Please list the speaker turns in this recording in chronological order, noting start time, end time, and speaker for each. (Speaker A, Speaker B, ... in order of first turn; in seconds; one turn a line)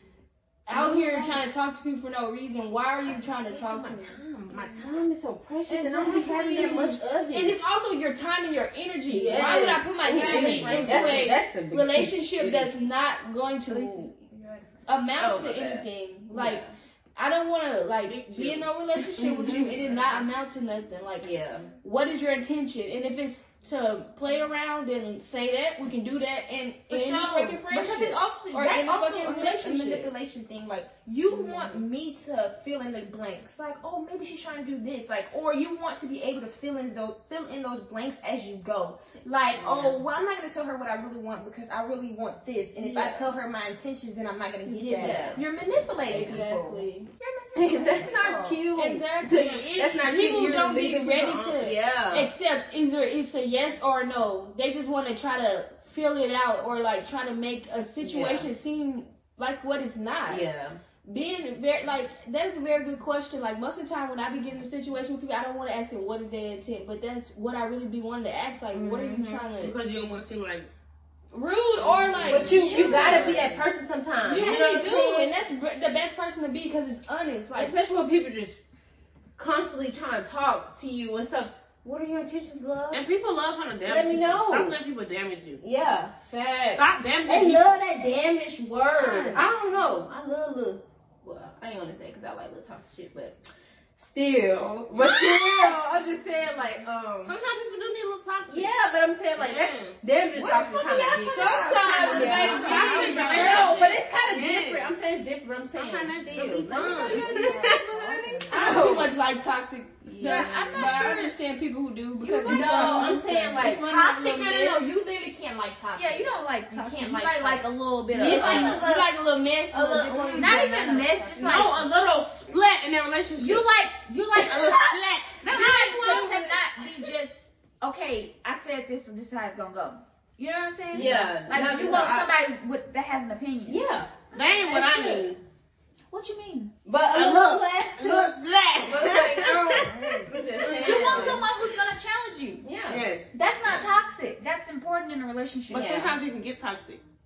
Speaker A: 0.7-4.2
Speaker B: 0.7-1.4
Speaker B: 3.1-7.6
Speaker A: 5.7-14.1
Speaker B: 9.1-12.7
Speaker C: 9.3-11.2
Speaker D: 10.3-11.1
Speaker D: 13.7-14.7
Speaker A: 14.8-21.3
Speaker B: 15.1-16.7
Speaker E: 18.0-19.8
Speaker B: 19.2-19.8
Speaker B: 21.2-21.7
Speaker A: 21.8-30.1
Speaker E: 26.9-27.2
Speaker C: 27.0-48.6
Speaker B: 31.3-31.8
Speaker B: 39.6-40.0
Speaker A: 42.8-43.2
Speaker A: 44.6-45.4
Speaker B: 44.9-45.4
Speaker A: 46.1-47.1
Speaker B: 46.1-46.4
Speaker B: 47.5-52.3
Speaker A: 48.7-60.5
Speaker B: 58.0-58.5
Speaker B: 60.2-60.8
Speaker A: 61.0-69.8
Speaker B: 68.7-69.7
Speaker E: 69.6-70.7
Speaker A: 71.3-73.6
Speaker E: 71.8-72.4
Speaker C: 72.1-73.5
Speaker B: 72.2-75.3
Speaker A: 74.2-77.7
Speaker B: 77.5-78.6
Speaker B: 79.4-83.0
Speaker E: 82.9-85.6
Speaker B: 83.8-84.8
Speaker B: 85.6-93.4
Speaker E: 86.7-87.7
Speaker C: 87.3-87.8
Speaker C: 89.0-90.0
Speaker B: 94.0-97.3
Speaker E: 94.9-95.8
Speaker E: 97.2-98.8
Speaker B: 98.5-109.2
Speaker E: 99.3-100.0
Speaker C: 100.3-104.0
Speaker A: 101.3-103.7
Speaker D: 102.1-103.7
Speaker E: 102.4-104.9
Speaker E: 105.7-108.8
Speaker C: 106.7-109.1
Speaker A: 107.4-107.8
Speaker A: 108.5-114.5
Speaker B: 110.0-111.0
Speaker D: 110.2-111.3
Speaker D: 112.2-113.1
Speaker C: 112.4-119.0
Speaker B: 112.4-114.9
Speaker D: 115.9-118.8
Speaker B: 118.2-119.1
Speaker A: 118.2-120.5
Speaker B: 119.7-121.8
Speaker C: 119.7-121.4
Speaker D: 120.3-121.8
Speaker E: 121.4-123.7
Speaker D: 123.4-124.8
Speaker E: 124.4-126.6
Speaker D: 125.5-133.8
Speaker B: 130.9-132.3
Speaker B: 133.7-135.2
Speaker E: 134.3-135.4
Speaker D: 136.1-139.9
Speaker B: 137.0-137.2
Speaker E: 137.0-141.5
Speaker B: 139.9-141.4
Speaker D: 140.6-142.6
Speaker B: 142.6-143.1
Speaker E: 142.9-143.9
Speaker D: 143.3-146.1
Speaker E: 145.7-147.0
Speaker B: 145.7-146.1